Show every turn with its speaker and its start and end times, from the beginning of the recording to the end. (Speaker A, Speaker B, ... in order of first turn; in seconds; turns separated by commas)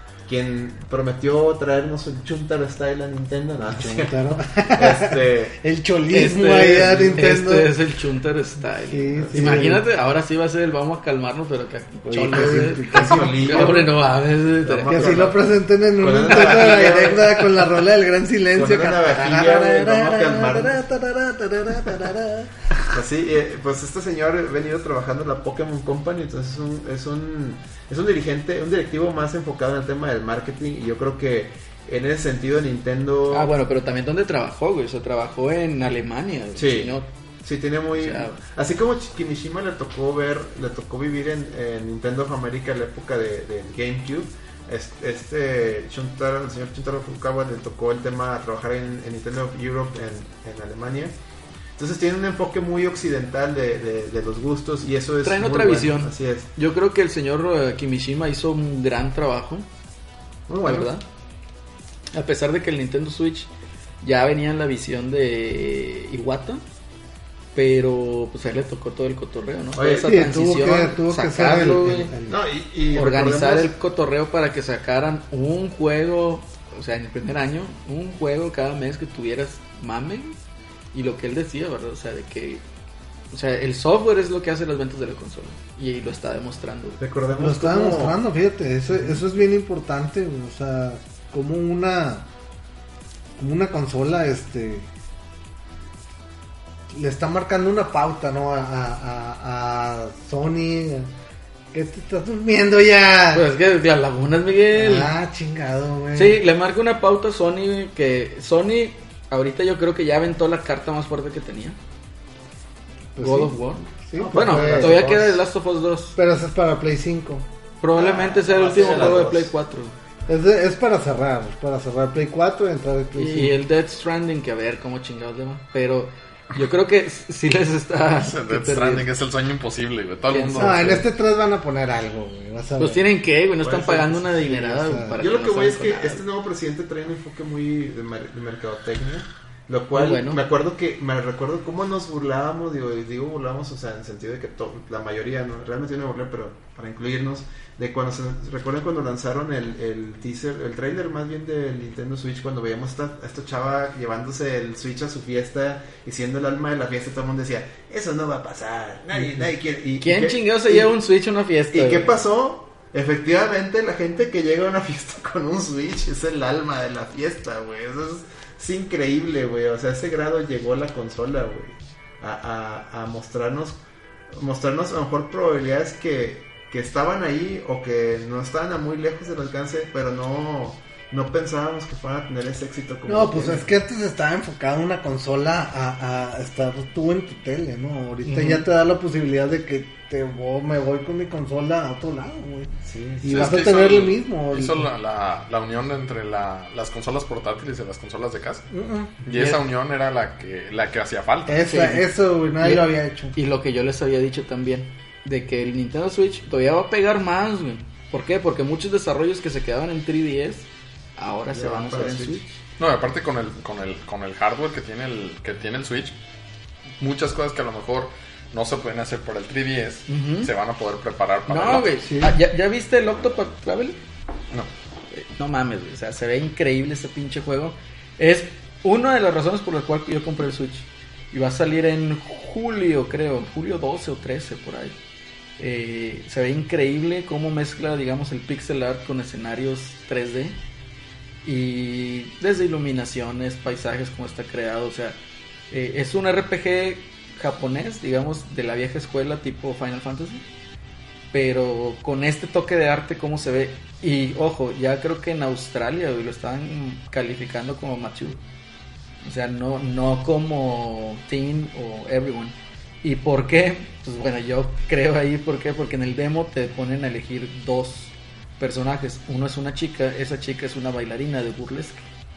Speaker A: 0.3-5.6, Speaker B: 3.6-7.7, Speaker C: 6.1-15.2, Speaker B: 8.9-9.8, Speaker A: 9.3-9.6, Speaker B: 12.1-13.8, Speaker A: 12.2-14.0, Speaker A: 14.6-17.5, Speaker B: 14.9-22.7, Speaker C: 16.2-17.4, Speaker A: 18.5-20.8, Speaker A: 22.9-33.5, Speaker C: 33.3-37.1, Speaker A: 36.6-51.1, Speaker C: 38.0-38.4, Speaker A: 51.8-56.5, Speaker C: 55.2-59.7, Speaker A: 60.5-60.9, Speaker C: 60.6-61.0, Speaker C: 62.1-63.5, Speaker C: 64.0-66.6, Speaker C: 67.5-72.1, Speaker A: 69.8-70.2, Speaker B: 70.0-72.4, Speaker A: 72.3-73.7, Speaker C: 72.9-80.4, Speaker C: 80.9-82.6, Speaker C: 83.3-87.0, Speaker A: 87.0-88.2, Speaker B: 87.4-92.3, Speaker B: 93.4-94.9, Speaker B: 96.9-101.1, Speaker B: 101.7-103.5, Speaker C: 103.3-105.1, Speaker B: 104.8-106.4, Speaker C: 106.1-111.8, Speaker B: 113.2-115.4, Speaker C: 113.2-116.2, Speaker A: 114.2-115.4, Speaker B: 116.2-117.5, Speaker C: 117.8-120.0, Speaker A: 118.0-119.5, Speaker B: 120.3-123.5, Speaker C: 123.2-129.1, Speaker D: 128.2-131.1, Speaker C: 130.3-131.0, Speaker B: 130.6-133.1, Speaker C: 132.8-136.2, Speaker A: 133.6-134.1, Speaker B: 133.7-135.2, Speaker A: 135.2-160.9, Speaker C: 139.9-140.4, Speaker C: 160.0-162.2, Speaker A: 161.7-173.8, Speaker A: 174.3-183.7, Speaker B: 183.1-192.7, Speaker C: 188.2-188.7, Speaker A: 192.9-193.7, Speaker B: 193.2-194.9, Speaker D: 193.3-198.7, Speaker B: 198.7-199.1, Speaker D: 199.2-201.6, Speaker C: 199.3-199.6, Speaker B: 201.5-203.3, Speaker C: 201.7-202.1, Speaker C: 202.6-212.4, Speaker A: 211.5-212.4, Speaker D: 212.8-216.2, Speaker D: 217.0-222.0, Speaker C: 220.1-220.5, Speaker C: 221.5-224.0, Speaker B: 222.0-222.3, Speaker C: 225.1-235.0, Speaker C: 235.6-240.6, Speaker C: 241.4-245.2, Speaker C: 245.7-250.4, Speaker C: 251.3-258.4, Speaker C: 259.2-272.1